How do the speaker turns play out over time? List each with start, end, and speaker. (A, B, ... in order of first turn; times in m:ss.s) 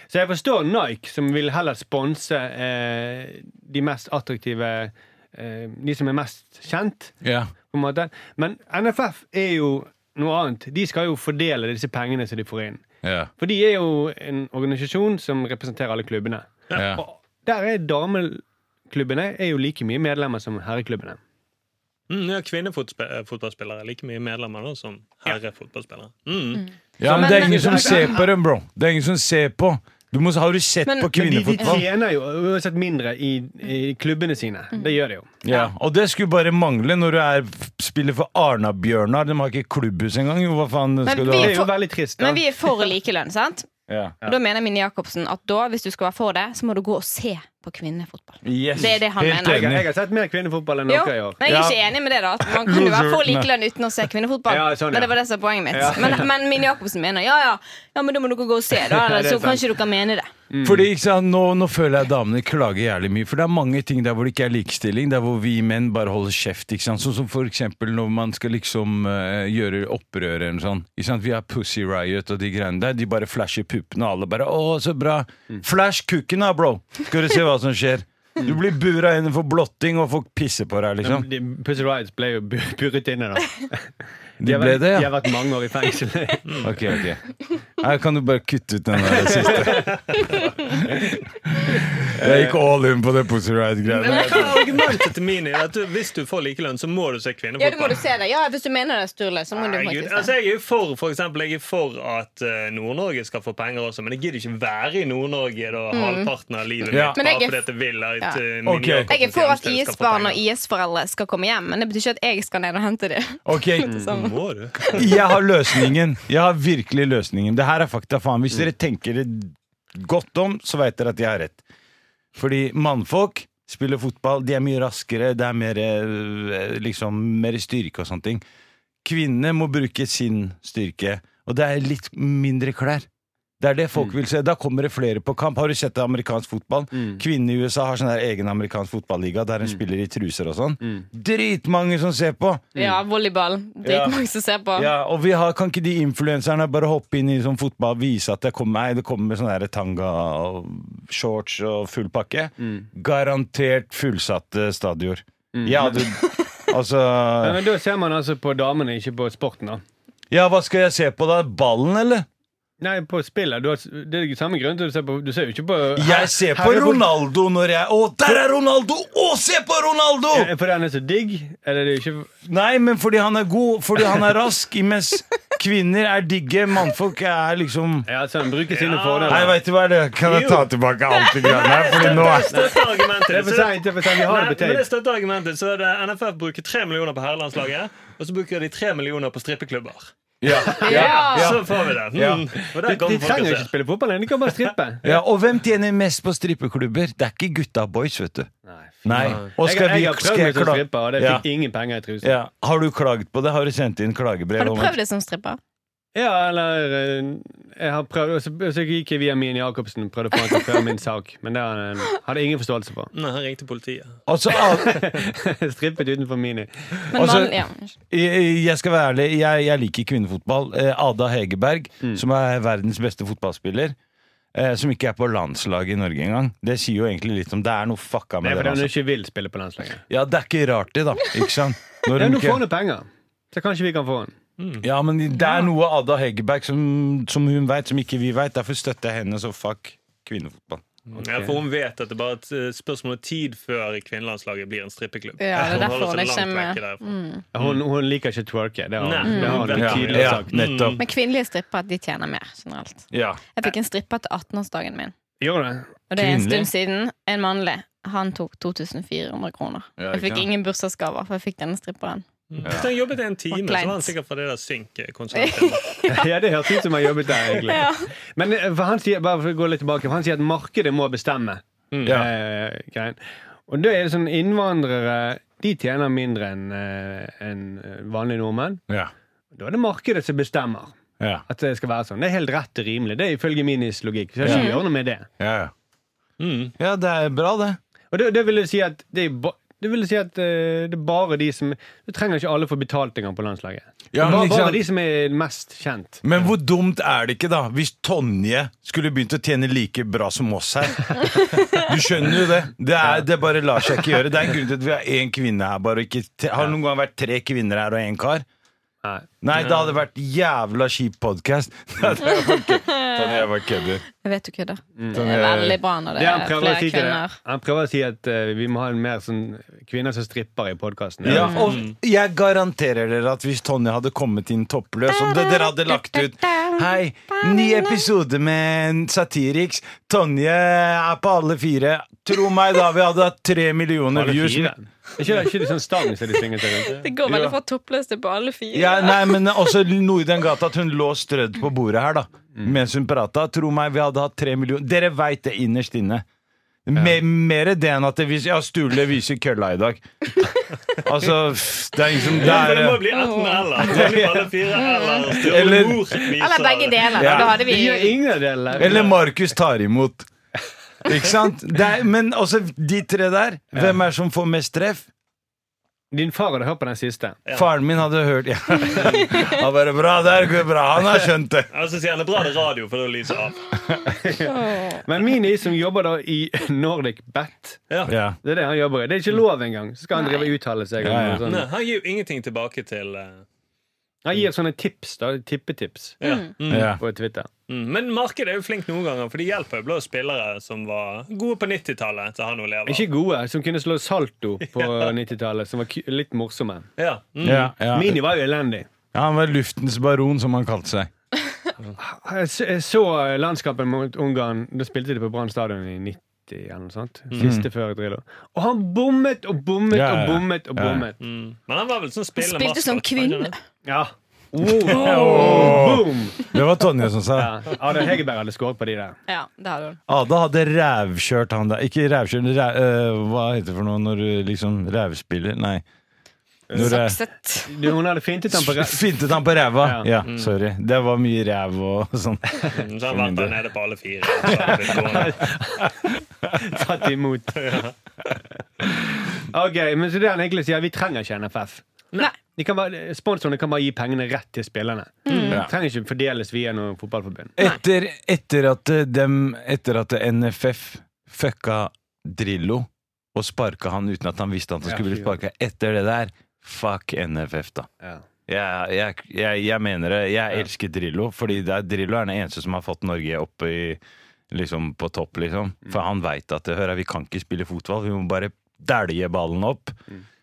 0:00.1-0:07.2 A
0:07.2-0:07.5 B
0:07.7-0:12.8 A
0:13.0-0:13.3 B
0:13.4-0:21.2 A
0:16.7-0:17.0 B
0:22.1-0:26.7 C
0:26.6-0:28.2 D
0:27.0-0:31.9 B
0:27.0-0:28.3 A
0:30.9-0:31.8 D
0:31.1-0:35.3 A
0:35.4-0:41.6 B
0:35.5-0:35.7 D
0:41.1-0:43.7 D
0:41.3-0:42.8 A
0:43.9-0:44.2 B
0:44.2-0:49.7 D
0:48.4-0:49.8 B
0:49.4-0:51.4 A
0:50.9-1:00.3 D
0:51.4-0:51.8 B
0:52.4-0:53.5 B
0:54.5-0:55.2 A
0:55.7-0:56.3 A
0:58.8-0:59.6 A
1:00.5-1:00.9 A
1:00.6-1:21.3 B
1:21.0-1:26.7 A
1:24.4-1:25.2 B
1:26.5-1:26.7 C
1:26.6-1:34.8 B
1:29.2-1:29.8 A
1:32.2-1:32.6 A
1:33.9-1:38.1 C
1:34.1-1:34.6 D
1:37.6-1:40.3 D
1:39.5-1:50.4 C
1:45.9-1:46.3 D
1:46.9-1:47.2 B
1:47.2-1:47.7 D
1:48.6-1:49.1 B
1:49.1-1:55.3 D
1:53.4-1:54.0 B
1:54.1-1:55.1 C
1:54.9-2:01.6 B
2:02.4-2:08.4 B
2:09.0-2:13.1 B
2:13.6-2:22.7 B
2:16.9-2:17.2 A
2:22.8-2:24.9 D
2:23.8-2:24.2 B
2:24.8-2:37.6 B
2:32.6-2:32.9 A
2:35.5-2:36.0 A
2:37.4-2:39.8 A
2:40.3-2:42.3 B
2:42.8-2:47.1 A
2:46.0-2:50.5 B
2:50.3-2:52.3 A
2:52.4-2:58.1 B
2:58.1-2:59.6 A
2:58.7-2:59.6 C
2:59.3-3:02.7 B
3:00.2-3:00.7 C
3:01.4-3:02.2 D
3:01.4-3:10.1 C
3:02.5-3:04.8 A
3:10.4-3:12.4 B
3:10.6-3:13.7 C
3:10.6-3:11.0 A
3:10.8-3:11.6 D
3:12.6-3:15.1 A
3:15.0-3:18.5 B
3:18.7-3:22.3 A
3:19.0-3:21.4 B
3:19.2-3:19.5 C
3:22.2-3:25.0 B
3:24.6-3:25.6 D
3:26.2-3:33.1 A
3:33.1-3:34.2 C
3:34.3-3:35.1 B
3:34.6-3:37.0 A
3:37.1-3:38.0 D
3:37.1-3:37.6 B
3:38.1-3:44.0 B
3:44.5-3:48.9 B
3:48.4-3:50.0 A
3:50.1-3:52.7 B
3:52.1-3:54.4 A
3:54.6-3:54.9 C
3:54.8-4:00.8 B
4:01.1-4:07.1 C
4:01.2-4:01.6 A
4:05.4-4:07.4 D
4:07.5-4:10.6 A
4:09.0-4:11.0 C
4:09.2-4:09.7 D
4:09.7-4:11.0 B
4:11.0-4:15.1 D
4:13.1-4:13.4 B
4:15.4-4:15.9 A
4:16.1-4:22.2 D
4:16.2-4:16.7 B
4:20.0-4:20.5 B
4:22.5-4:25.9 C
4:23.5-4:24.1 D
4:25.3-4:28.1 D
4:26.1-4:38.8 A
4:31.9-4:32.2 C
4:32.0-4:32.3 B
4:39.5-4:45.3 A
4:44.4-4:44.7 B
4:44.4-4:44.8 D
4:45.4-4:45.7 B
4:46.4-4:46.7 C
4:46.8-4:47.8 B
4:48.1-4:56.2 A
4:54.1-4:54.8 B
4:56.2-5:08.4 B
5:01.5-5:01.8 D
5:09.0-5:09.3 A
5:09.4-5:14.0 B
5:12.4-5:13.5 D
5:14.1-5:17.4 D
5:15.0-5:15.3 A
5:15.1-5:15.8 B
5:16.2-5:21.6 A
5:21.2-5:34.7 B
5:21.3-5:21.8 D
5:21.6-5:22.0 C
5:25.1-5:28.0 D
5:34.1-5:37.0 A
5:36.9-5:39.5 D
5:37.2-5:37.6 B
5:38.7-5:46.2 B
5:46.9-5:50.1 B
5:51.0-5:53.0 B
5:52.2-5:57.5 C
5:53.1-5:54.1 D
5:53.8-5:54.5 A
5:54.7-5:55.4 D
5:55.4-5:56.2 B
5:56.4-5:58.2 D
5:57.1-5:57.6 B
5:57.3-5:59.2 A
5:58.8-6:00.3 B
5:58.8-5:59.1 C
6:01.0-6:05.1 B
6:03.7-6:04.0 A
6:06.1-6:07.4 A
6:07.5-6:11.7 B
6:09.0-6:09.3 C
6:11.7-6:13.8 C
6:14.2-6:17.9 A
6:14.4-6:15.0 D
6:18.1-6:18.4 B
6:18.4-6:21.7 A
6:20.2-6:20.5 D
6:21.0-6:21.4 B
6:21.4-6:23.4 C
6:24.2-6:26.2 A
6:26.2-6:27.0 C
6:26.2-6:26.5 D
6:26.7-6:27.0 B
6:27.0-6:27.5 A
6:27.7-6:33.1 C
6:32.9-6:36.9 A
6:34.8-6:35.1 C
6:37.0-6:37.7 C
6:37.4-6:38.3 B
6:37.9-6:38.9 A
6:39.1-6:41.1 B
6:42.0-6:51.2 A
6:47.4-6:47.7 B
6:49.9-6:51.1 B
6:51.2-6:53.6 C
6:52.4-6:53.6 D
6:53.9-6:56.4 A
6:54.8-6:57.8 B
6:57.4-6:59.2 A
6:59.3-7:00.0 D
7:00.1-7:05.8 B
7:06.7-7:07.0 A
7:06.7-7:07.2 B
7:06.8-7:07.9 D
7:07.7-7:09.0 A
7:08.5-7:13.6 B
7:09.8-7:10.1 A
7:10.2-7:10.6 C
7:12.7-7:15.5 C
7:14.5-7:15.2 B
7:14.9-7:16.0 A
7:16.6-7:17.8 A
7:17.5-7:18.0 C
7:19.4-7:21.8 A
7:22.6-7:27.6 A
7:25.3-7:25.6 D
7:27.6-7:37.9 B
7:34.8-7:35.3 A
7:38.5-7:50.0 B